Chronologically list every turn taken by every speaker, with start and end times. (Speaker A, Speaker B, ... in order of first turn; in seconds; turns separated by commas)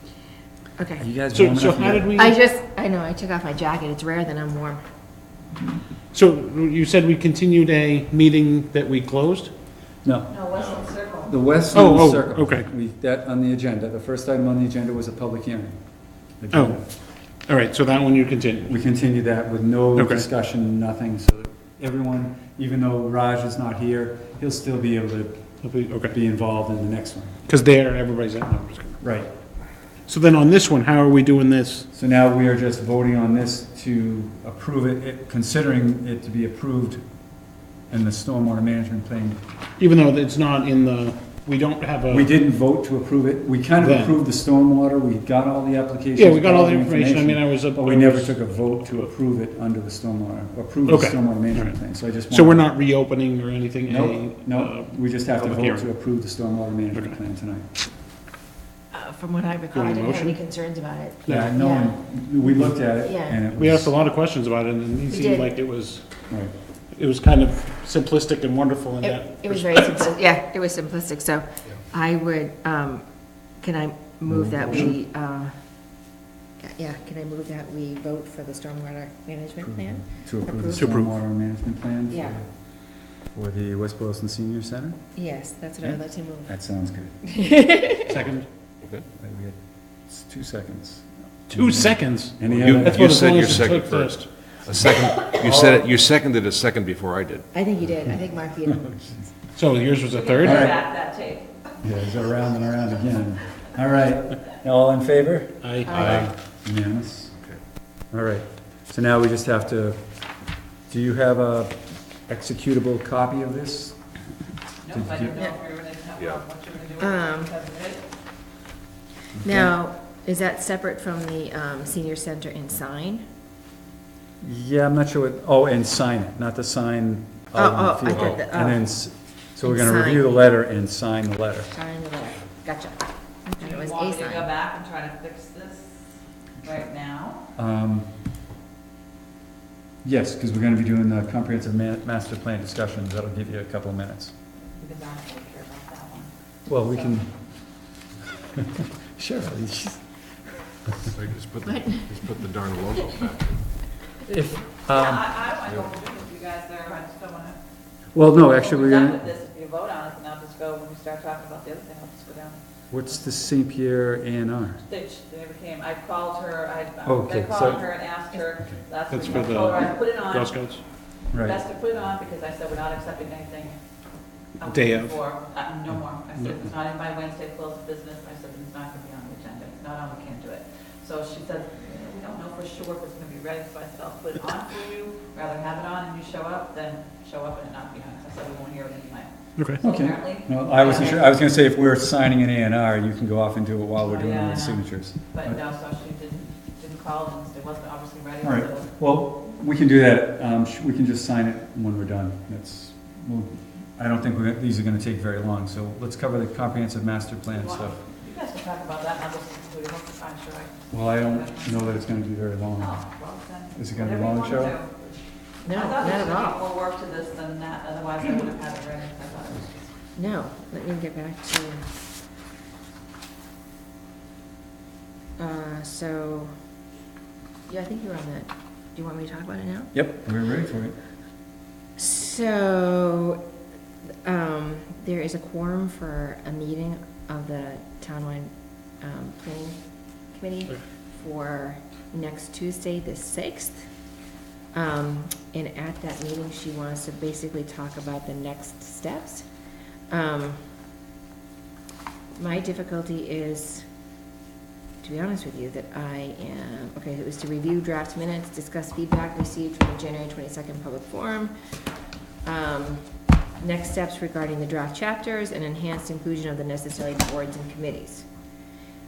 Speaker A: 0.8-1.1, Speaker B: 1.0-2.1, Speaker C: 1.3-2.3, Speaker A: 2.1-4.8, Speaker C: 6.1-9.5, Speaker B: 10.0-10.4, Speaker D: 10.3-11.4, Speaker B: 11.3-15.8, Speaker C: 11.7-12.7, Speaker B: 16.4-16.9, Speaker C: 16.5-16.8, Speaker C: 17.5-18.7, Speaker B: 18.6-25.5, Speaker C: 20.0-20.2, Speaker C: 25.6-26.1, Speaker B: 26.0-27.4, Speaker C: 27.5-29.0, Speaker B: 29.0-29.3, Speaker C: 30.1-31.9, Speaker B: 31.9-37.0, Speaker B: 37.9-39.4, Speaker C: 39.8-42.3, Speaker B: 42.1-52.6, Speaker C: 43.8-44.2, Speaker C: 46.2-49.0, Speaker C: 50.9-55.9, Speaker B: 53.9-57.7, Speaker A: 58.9-61.9, Speaker C: 59.7-60.4, Speaker B: 61.3-63.9, Speaker A: 63.0-63.4, Speaker C: 63.5-66.0, Speaker A: 65.1-65.5, Speaker C: 66.9-70.1, Speaker A: 69.0-73.0, Speaker A: 73.6-75.6, Speaker B: 74.3-75.0, Speaker A: 76.6-80.9, Speaker B: 79.6-82.5, Speaker C: 80.8-81.1, Speaker A: 82.1-82.4, Speaker B: 83.3-85.0, Speaker A: 85.2-86.5, Speaker B: 85.8-87.2, Speaker A: 87.2-88.1, Speaker C: 88.0-88.5, Speaker B: 89.2-93.2, Speaker C: 91.5-94.3, Speaker E: 92.5-97.4, Speaker B: 95.3-95.9, Speaker A: 97.5-98.9, Speaker B: 98.8-99.2, Speaker C: 99.5-100.7, Speaker D: 100.1-101.5, Speaker B: 100.4-100.8, Speaker B: 101.8-107.3, Speaker C: 105.6-106.0, Speaker A: 105.9-106.3, Speaker E: 106.0-106.3, Speaker B: 108.1-110.0, Speaker B: 110.9-114.0, Speaker D: 114.8-118.0, Speaker B: 114.9-115.4, Speaker A: 117.0-117.5, Speaker B: 119.4-119.7, Speaker A: 119.4-123.2, Speaker B: 124.4-131.7, Speaker A: 127.5-128.9, Speaker A: 129.6-130.4, Speaker A: 131.7-134.5, Speaker D: 133.6-135.9, Speaker D: 136.6-137.4, Speaker B: 137.6-138.1, Speaker B: 140.0-144.3, Speaker D: 144.8-146.3, Speaker B: 146.7-147.3, Speaker B: 148.5-150.0, Speaker E: 151.1-153.6, Speaker A: 151.6-152.0, Speaker B: 154.2-155.3, Speaker D: 154.9-157.6, Speaker B: 158.1-159.2, Speaker D: 158.5-162.6, Speaker B: 162.9-164.8, Speaker D: 164.9-170.6, Speaker B: 167.0-167.8, Speaker C: 169.1-170.8, Speaker B: 171.3-171.6, Speaker D: 171.3-173.8, Speaker D: 174.6-191.3, Speaker C: 174.6-175.2, Speaker B: 189.8-195.6, Speaker D: 194.0-198.9, Speaker B: 198.4-208.0, Speaker D: 207.5-212.0, Speaker B: 210.9-213.0, Speaker D: 212.7-215.1, Speaker B: 213.7-214.8, Speaker A: 215.6-216.7, Speaker D: 215.7-219.8, Speaker A: 220.2-221.8, Speaker A: 225.4-226.5, Speaker A: 227.7-229.9, Speaker B: 229.9-230.9, Speaker A: 231.9-233.4, Speaker A: 234.2-239.8, Speaker A: 240.3-243.8, Speaker A: 244.7-249.4, Speaker A: 250.1-250.6, Speaker A: 252.3-253.8, Speaker A: 255.0-261.5, Speaker A: 262.4-263.0, Speaker A: 263.6-268.3